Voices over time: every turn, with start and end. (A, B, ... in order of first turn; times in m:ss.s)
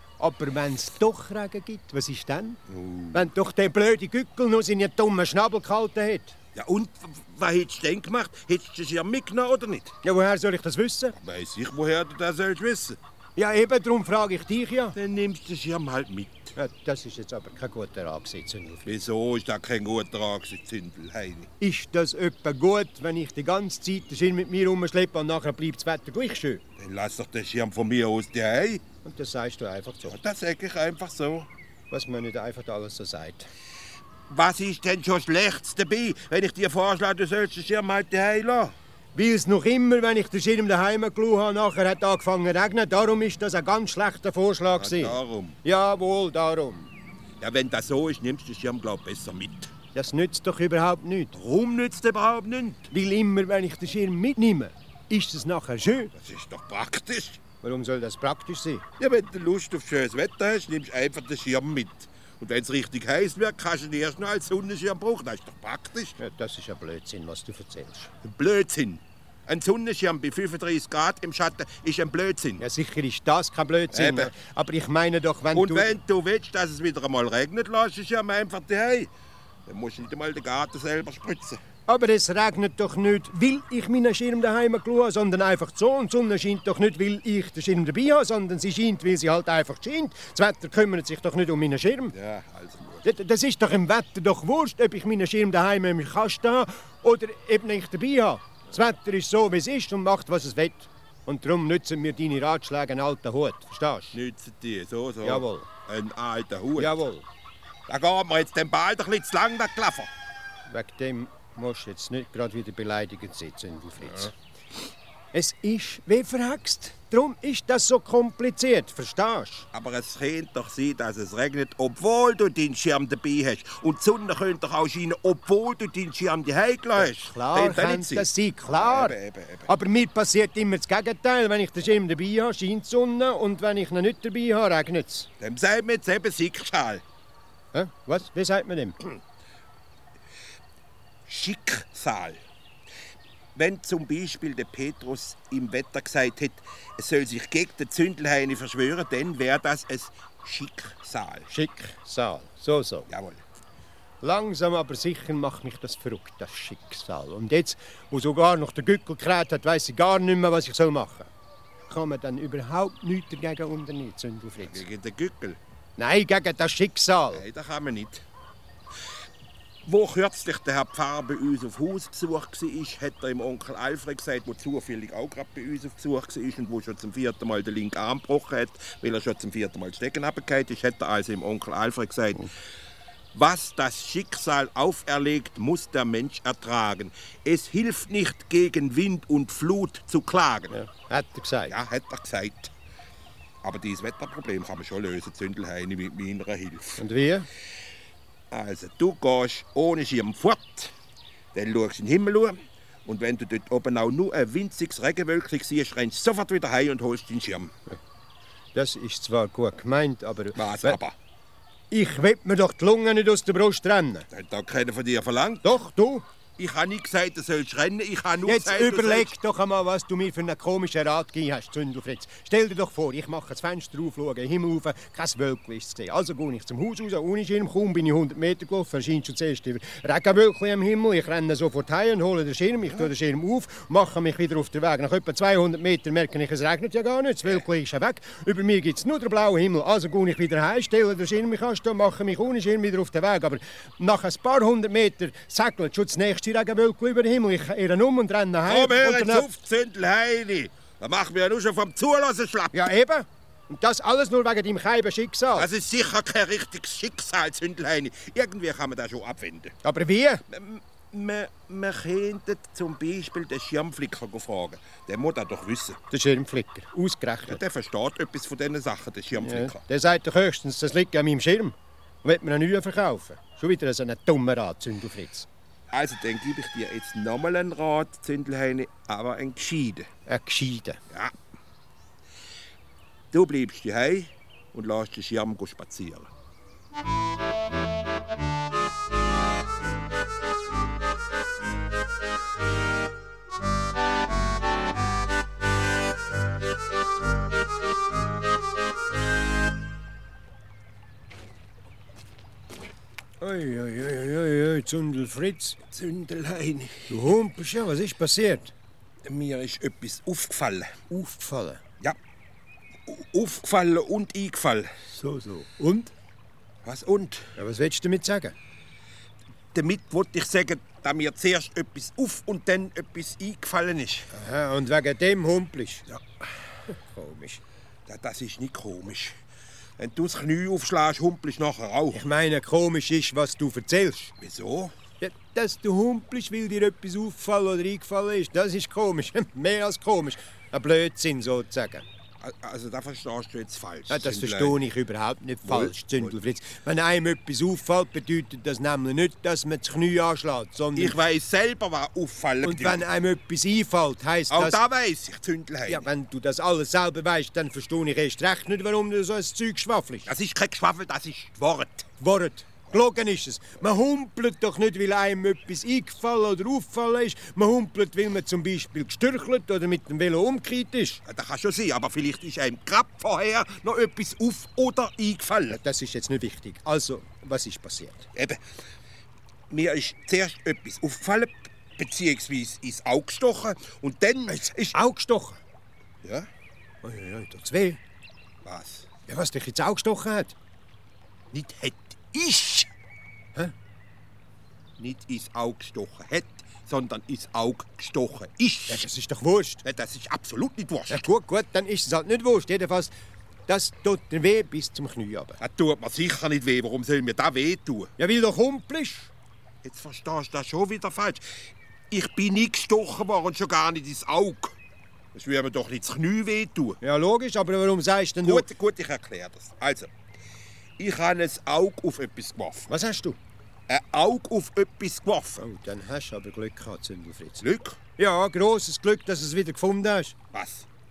0:00.2-0:02.6 A
0:02.7-0:03.3 B
0:03.1-0:06.4 A
0:06.6-0:09.9 B
0:10.0-0:11.2 A
0:11.2-0:13.0 B
0:13.4-0:15.0 A
0:15.0-0:16.5 B
0:16.6-0:18.8 A
0:18.8-0:21.5 B
0:21.6-0:26.6 A
0:26.8-0:28.8 B
0:29.0-0:30.2 A
0:30.1-0:31.5 B
0:31.9-0:33.5 A
0:34.3-0:38.8 B
0:39.2-0:46.9 A
0:44.8-0:45.6 B
0:47.4-0:49.7 B
0:49.9-0:51.3 A
0:51.3-0:52.9 B
0:52.9-0:56.1 A
0:56.1-0:57.4 B
0:57.6-0:58.8 A
0:59.0-1:06.2 B
1:06.2-1:08.1 A
1:08.2-1:12.6 B
1:12.6-1:15.9 A
1:13.9-1:14.3 B
1:15.5-1:19.1 B
1:19.7-1:21.6 B
1:21.9-1:32.1 A
1:32.1-1:33.1 B
1:33.0-1:44.2 A
1:44.1-1:47.0 B
1:45.2-1:45.7 A
1:46.8-1:47.3 A
1:47.9-1:50.1 B
1:50.7-1:54.3 A
1:55.3-1:59.7 A
1:59.7-2:09.7 B
2:07.0-2:09.2 A
2:09.7-2:15.3 A
2:15.4-2:17.0 B
2:17.7-2:19.0 A
2:21.3-2:22.4 B
2:23.6-2:31.5 B
2:31.5-2:33.1 A
2:33.1-2:33.4 B
2:34.2-2:41.3 A
2:41.9-2:44.8 A
2:44.6-2:45.6 B
2:46.0-2:47.4 A
2:47.3-2:48.2 B
2:49.8-3:02.5 B
3:03.3-3:10.8 B
3:10.7-3:11.7 A
3:11.7-3:12.7 B
3:13.6-3:17.0 B
3:17.0-3:17.5 A
3:18.5-3:20.9 B
3:21.5-3:27.7 B
3:28.8-3:31.0 A
3:30.6-3:31.2 B
3:31.9-3:34.3 A
3:34.3-3:35.6 B
3:35.6-3:36.3 A
3:36.6-3:39.3 B
3:38.4-4:09.5 A
4:08.7-4:12.9 B
4:12.7-4:15.7 A
4:15.5-4:19.8 B
4:19.8-4:20.4 A
4:20.5-4:26.0 B
4:26.1-4:27.6 A
4:27.5-4:29.8 B
4:29.4-4:35.5 A
4:35.9-4:40.1 B
4:40.3-4:41.0 A
4:43.3-4:46.3 B
5:03.4-5:05.8 A
5:05.9-5:07.2 B
5:07.1-5:08.7 A
5:09.2-5:11.0 B
5:11.1-5:11.8 A
5:13.1-5:14.9 B
5:15.1-5:16.1 A
5:16.8-5:17.6 B
5:17.6-5:18.6 A
5:19.7-5:24.3 B
5:24.3-5:26.1 A
5:26.9-5:27.6 A
5:28.1-5:29.4 B
5:30.0-5:32.2 B
5:32.1-5:34.3 A
5:34.4-5:34.9 B
5:35.2-5:42.0 A
5:42.4-5:44.8 B
5:44.1-5:51.2 A
5:45.6-5:46.3 B
5:51.0-5:53.0 B
5:52.6-5:54.8 A
5:54.5-5:56.1 B
5:55.9-6:00.3 A
6:00.3-6:02.1 B
6:02.2-6:11.2 A
6:11.2-6:15.8 B
6:15.7-6:18.3 A
6:18.4-6:18.6 B
6:19.7-6:25.0 B
6:24.8-6:25.6 A
6:26.2-6:26.5 B
6:27.0-6:28.0 A
6:28.6-6:29.1 B
6:29.3-6:30.6 A
6:31.5-6:32.9 B
6:35.0-6:39.1 B
6:38.9-6:39.8 A
6:39.8-6:41.2 B
6:41.1-6:43.1 A
6:43.7-6:45.6 A
6:45.6-6:48.1 B
6:48.2-6:49.3 A
6:49.8-6:51.5 B
6:52.1-6:54.8 B
6:55.3-6:57.0 B
6:57.0-6:58.7 A
6:58.4-7:00.1 B
7:01.0-7:02.9 B
7:02.9-7:03.4 A
7:03.9-7:05.6 B
7:05.6-7:07.6 A
7:07.6-7:08.0 B
7:08.2-7:10.4 A
7:10.5-7:10.9 B